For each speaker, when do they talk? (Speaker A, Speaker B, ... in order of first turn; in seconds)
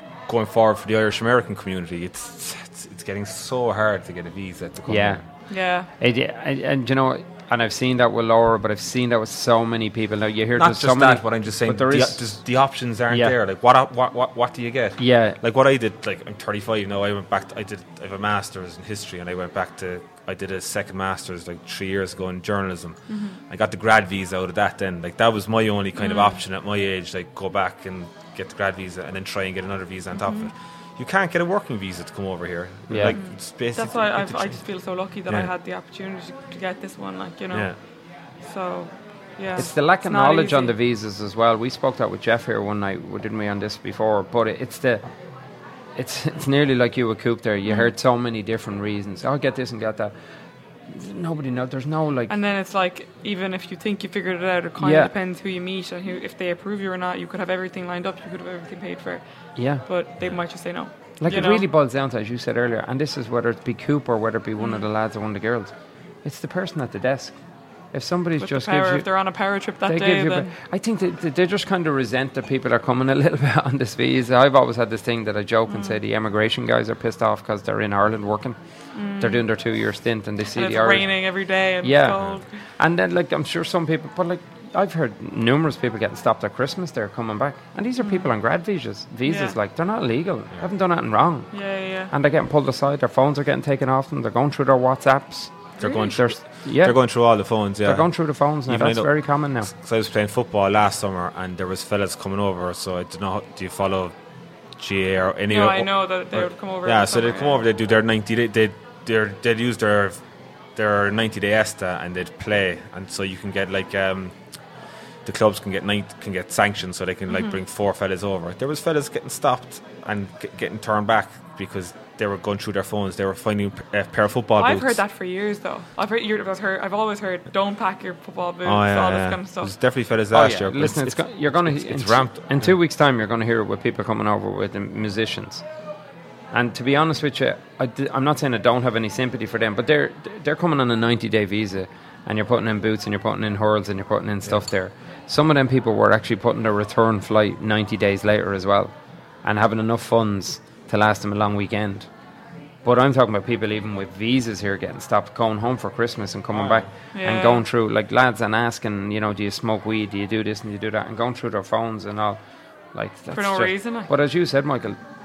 Speaker A: 0.3-5.2, 10.6-34.6, 37.5-37.8, 95.8-98.1, 98.7-104.1, 104.8-110.2, 110.8-114.3, 115.2-125.0, 128.6-132.7, 156.5-156.9
Speaker B: 4.9-5.2, 6.0-12.3, 13.1-13.3, 15.0-15.4, 32.9-33.2, 39.5-45.0, 45.9-50.1, 50.9-52.3, 54.8-55.1, 59.5-59.8, 61.2-65.7, 66.2-67.4, 67.9-69.1, 69.8-78.6, 79.2-81.1, 81.8-91.6, 92.1-97.0, 97.8-99.7, 130.3-135.6, 136.5-152.1, 152.8-162.4, 162.9-165.0
Speaker C: 5.5-5.9, 23.1-23.4, 26.0-26.4, 30.1-30.5, 33.1-37.7, 38.4-40.7, 47.6-47.9, 52.3-61.6, 64.6-64.8, 68.4-70.5, 75.7-76.0, 78.9-79.4, 80.5-82.5, 88.0-88.3, 89.2-89.5, 91.5-92.1, 95.8-96.1, 105.5-107.6, 117.3-117.6, 124.5-129.7, 157.1-157.6, 163.3-164.1